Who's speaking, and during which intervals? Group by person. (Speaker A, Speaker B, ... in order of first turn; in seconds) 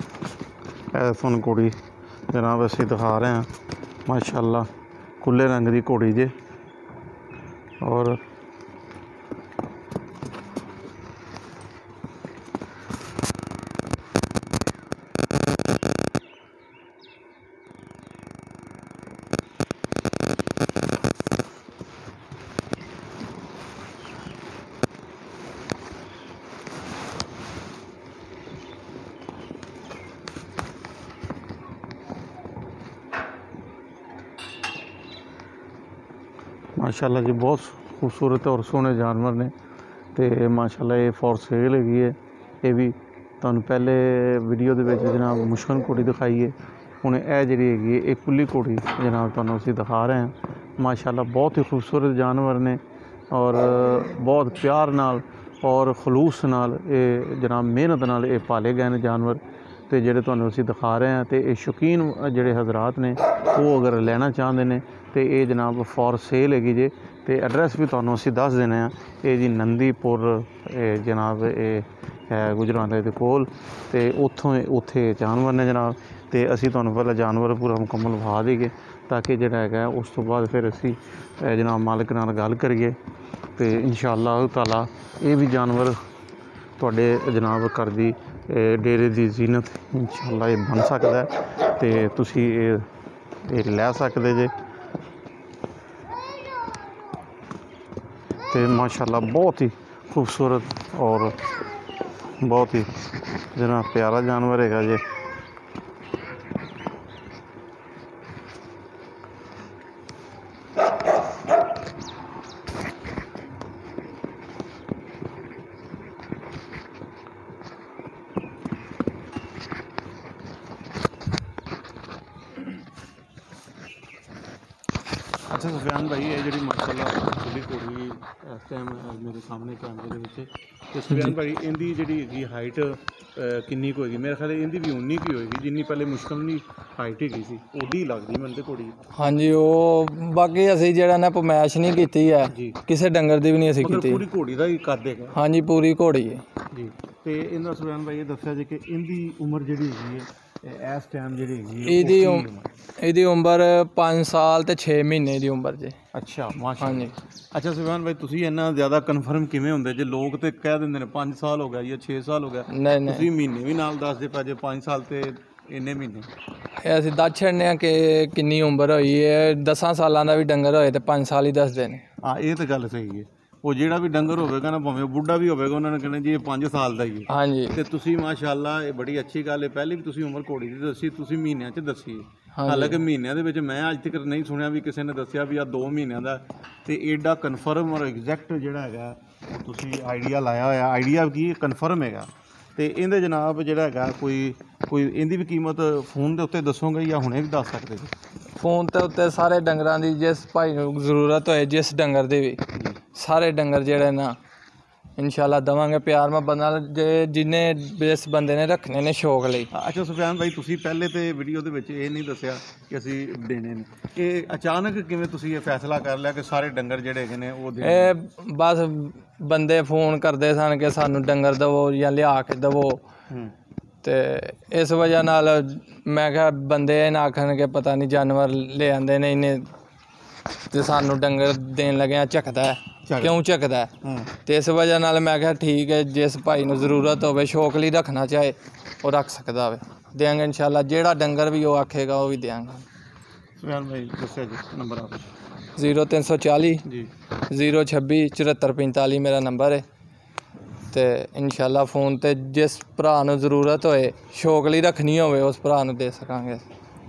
Speaker A: 0.9-1.8, 2.3-3.5, 4.1-4.7, 5.2-6.3, 7.8-8.2, 36.8-39.5, 40.1-52.8, 53.3-83.0, 83.6-86.0, 86.8-92.9, 93.4-94.5, 98.5-101.4, 102.4-102.9, 103.5-105.0, 125.5-139.0, 142.5-142.8, 143.8-145.4, 146.7-152.7, 156.1-166.3, 172.2-198.1, 209.7-218.2, 233.1-233.4, 234.0-234.3, 243.6-245.3, 246.8-247.1
Speaker B: 139.2-144.2, 145.3-146.4, 151.8-152.5, 153.0-156.0, 156.8-157.1, 162.7-163.3, 166.8-172.0, 177.3-177.8, 182.6-183.0, 198.6-204.4, 205.2-209.7, 217.8-223.0, 224.0-229.7, 230.7-233.9, 234.5-242.8, 245.8-246.8, 247.5-249.8, 250.9-256.6